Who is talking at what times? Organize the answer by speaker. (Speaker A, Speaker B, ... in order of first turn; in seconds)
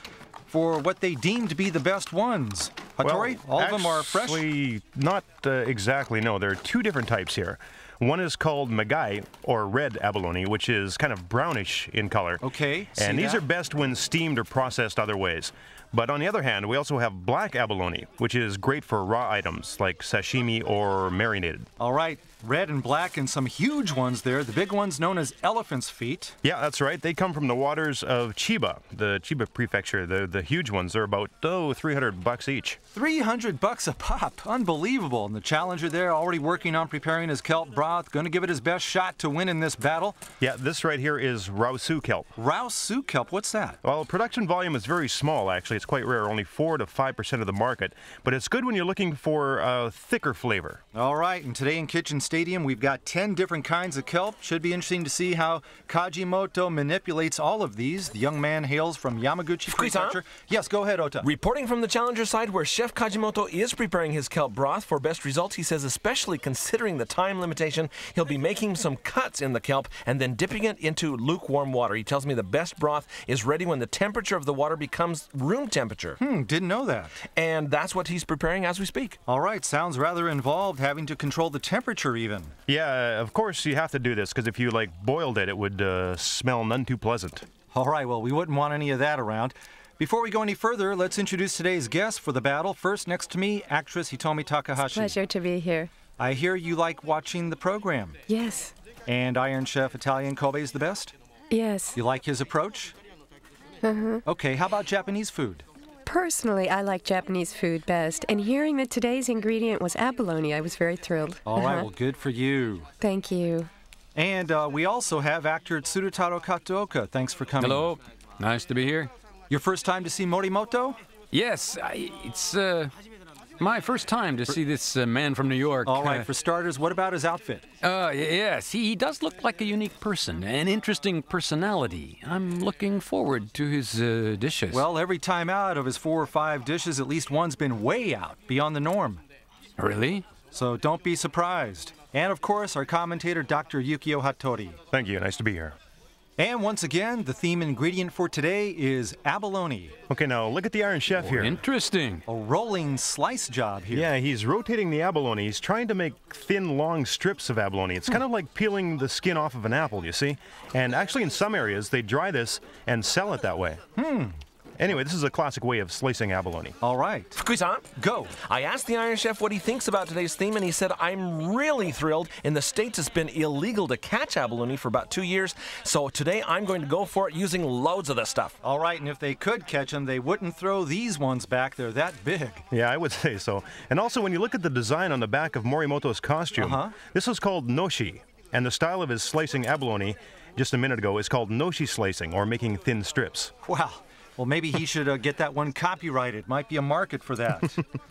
Speaker A: 0.5-4.5, 12.4-13.4, 21.8-26.4, 32.9-40.2, 42.4-43.8, 50.9-61.3, 76.2-77.2, 79.3-82.5, 87.7-95.1, 96.2-98.2, 99.1-101.1, 101.9-102.9, 104.2-105.6, 111.5-112.9, 114.1-117.9, 119.5-121.0, 125.8-127.6, 134.7-139.2, 140.5-144.8, 146.4-149.9, 152.3-154.1, 163.9-164.4, 166.8-167.4, 167.9-168.3, 178.6-182.6, 186.6-186.9, 193.6-197.8
Speaker B: 3.0-12.4, 12.9-21.7, 26.4-32.8, 40.4-42.3, 43.8-50.8, 82.7-87.5, 144.9-145.8, 150.1-151.6, 153.9-163.8, 164.8-166.8, 182.7-193.5
Speaker C: 59.7-60.2, 61.2-76.2, 77.3-79.2, 167.3-167.8, 168.4-178.6
Speaker D: 94.8-95.9, 98.3-98.7, 101.5-102.0, 103.8-104.2, 106.0-111.9, 113.0-113.7
Speaker E: 117.6-119.1, 121.3-122.9, 123.6-126.3, 127.8-134.8, 139.8-140.2, 151.2-152.2